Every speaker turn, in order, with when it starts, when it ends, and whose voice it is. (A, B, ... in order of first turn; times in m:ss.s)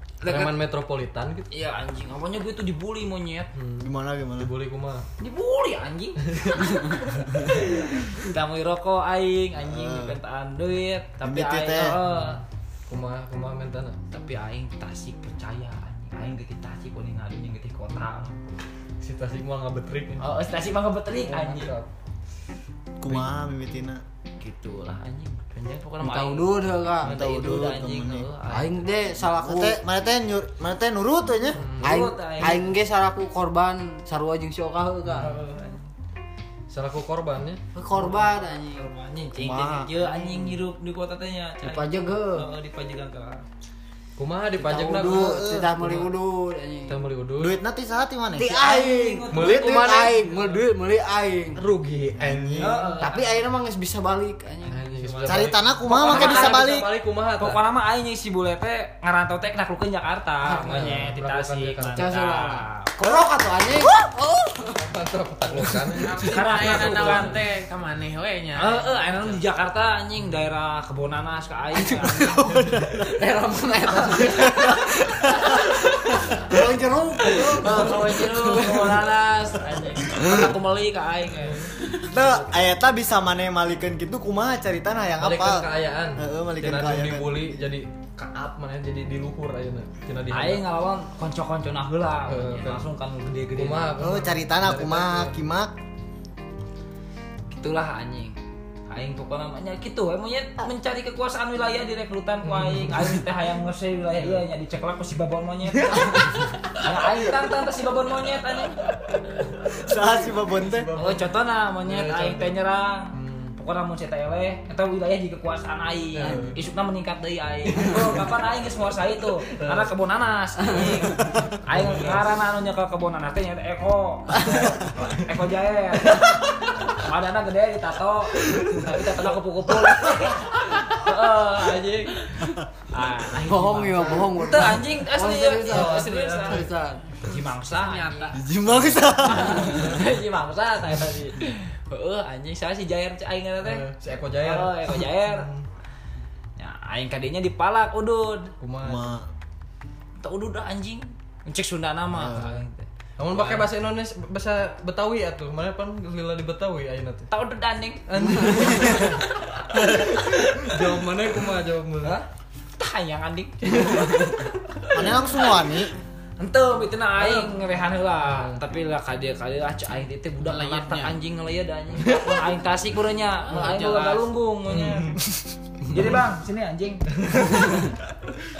0:00.2-0:00.6 A
0:00.2-0:01.5 B
0:01.5-0:03.5 A
0:03.5-0:05.0 B
0:03.8-0:04.5 C
0:05.2-0:12.4 A
0:09.6-0:10.2 C
0:11.2-0:12.0 C
0:12.9-0:14.0 B
0:14.1-0:18.4 A
0:19.0-0:20.2 B
0:20.2-0:21.7 A
0:21.1-0:21.9 B
0:23.0-0:24.0 C
0:24.4-0:29.2 A
0:26.0-0:27.1 D
0:27.0-0:28.3 C
0:28.5-0:29.8 D
0:29.2-0:31.6 C
0:31.6-0:32.0 B
0:31.8-0:32.7 A
0:31.8-0:35.4 D
0:35.1-0:35.8 A
0:36.7-0:37.6 B
0:37.7-0:38.9 D
0:38.0-0:43.4 A
0:39.3-0:40.5 C
0:41.6-0:42.5 D
0:44.2-0:46.1 B
0:44.6-0:47.0 D
0:45.0-0:45.8 C
0:46.9-0:47.6 B
0:47.4-0:48.8 C
0:48.4-0:51.6 D
0:48.6-0:50.6 A
0:49.3-0:50.3 B
0:51.6-0:52.9 B
0:52.1-0:52.8 C
0:52.6-0:53.4 A
0:53.0-0:54.8 D
0:54.7-0:57.6 B
0:55.0-0:56.8 A
0:55.2-0:56.9 C
0:57.4-1:03.3 A
1:00.5-1:02.1 B
1:00.6-1:01.0 D
1:01.9-1:04.8 D
1:04.6-1:07.3 B
1:05.5-1:05.9 D
1:06.0-1:09.4 E
1:06.2-1:07.4 A
1:08.6-1:12.4 A
1:11.8-1:15.1 D
1:12.4-1:13.1 C
1:14.2-1:18.0 C
1:16.3-1:18.9 D
1:17.3-1:22.0 A
1:17.6-1:18.1 B
1:20.1-1:20.4 C
1:21.4-1:21.7 B
1:22.0-1:27.6 C
1:25.2-1:30.6 B
1:30.3-1:34.1 A
1:32.3-1:32.8 B
1:33.6-1:35.4 B
1:34.0-1:35.7 C
1:37.5-1:38.4 A
1:38.9-1:48.8 A
1:42.4-1:43.2 B
1:44.2-1:44.4 B
1:49.7-1:50.9 C
1:50.6-1:51.3 B
1:50.9-2:16.7 A
1:51.8-1:52.5 B
1:53.1-1:53.5 B
1:56.1-1:56.6 B
1:57.7-1:58.2 B
1:59.5-1:59.9 B
2:00.8-2:02.3 B
2:11.5-2:12.1 B
2:13.3-2:17.1 D
2:15.6-2:16.7 B
2:17.2-2:25.5 A
2:17.9-2:18.3 E
2:18.3-2:18.6 D
2:18.3-2:19.6 C
2:23.6-2:25.6 B
2:26.6-2:28.5 A
2:28.6-2:29.1 B
2:28.8-2:29.3 C
2:30.2-2:33.7 A
2:32.1-2:32.6 C
2:33.2-2:37.3 B
2:37.3-2:39.6 A
2:38.1-2:42.2 B
2:42.0-2:42.3 A
2:42.8-2:44.5 A
2:44.9-2:45.9 C
2:46.4-2:55.2 A
2:47.2-2:47.6 B
2:48.1-2:48.6 B
2:50.4-2:51.2 E
2:52.0-2:52.3 B
2:53.4-2:54.3 E
2:54.7-2:55.2 B
2:55.8-2:56.2 B
2:55.9-2:57.9 A
2:57.2-2:57.8 B